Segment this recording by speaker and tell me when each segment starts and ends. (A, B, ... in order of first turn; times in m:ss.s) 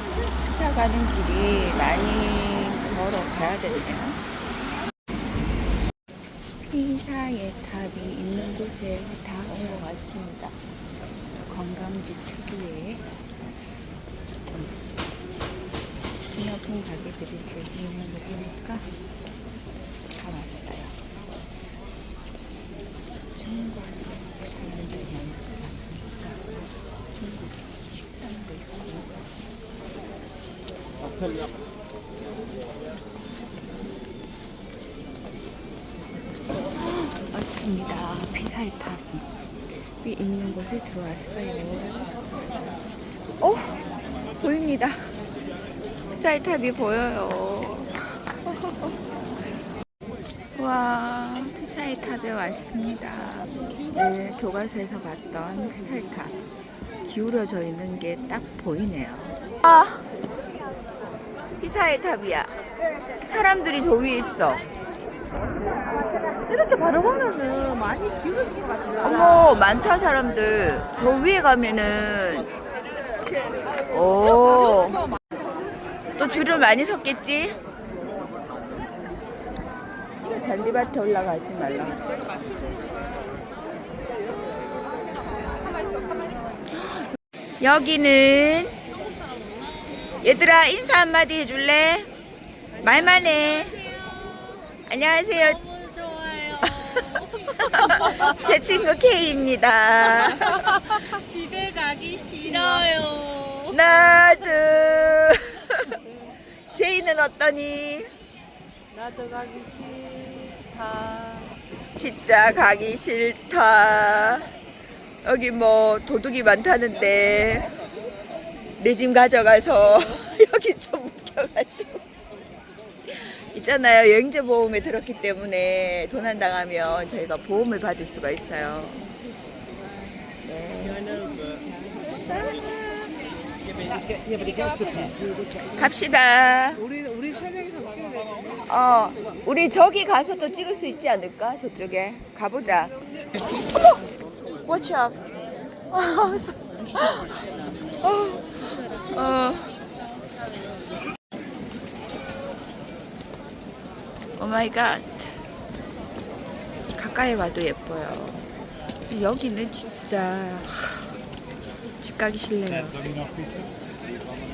0:00.4-0:04.2 A
0:06.7-0:10.6 A
0:11.4-0:13.1 A
0:16.3-0:18.9 A
0:20.2-0:21.0 A
0:23.3-0:26.5 A
0:27.1-0:29.1 A
0:36.8-0:39.3 A
0:39.9-0:42.1 A
0:43.4-0:43.8 A
0:44.4-0:45.1 A
0:46.1-0:48.9 A
0:50.6-0:56.4 A
0:57.0-1:00.0 A
1:01.6-1:02.5 A
1:03.2-1:04.6 A
1:06.4-1:09.0 B
1:09.0-1:12.5 A
1:13.9-1:15.0 A
1:16.1-1:17.6 A
1:20.2-1:22.1 A
1:26.7-1:27.1 A
1:27.6-1:28.8 A
1:30.2-1:32.1 A
1:32.8-1:34.0 A
1:34.9-1:35.8 A
1:35.8-1:36.7 B
1:36.6-1:41.2 A
1:41.2-1:43.5 B
1:42.3-1:46.0 A
1:46.7-1:48.1 A
1:48.9-1:51.5 B
1:51.9-1:54.5 A
1:55.2-1:57.7 A
1:58.8-2:02.0 A
2:03.0-2:09.1 A
2:10.4-2:11.2 A
2:15.6-2:16.9 A
2:17.3-2:18.2 B
2:18.5-2:23.0 A
2:24.6-2:25.2 A
2:25.9-2:27.3 A
2:28.0-2:29.8 A
2:34.4-2:35.4 A
2:36.9-2:38.4 A
2:39.1-2:41.1 A
2:41.8-2:43.2 A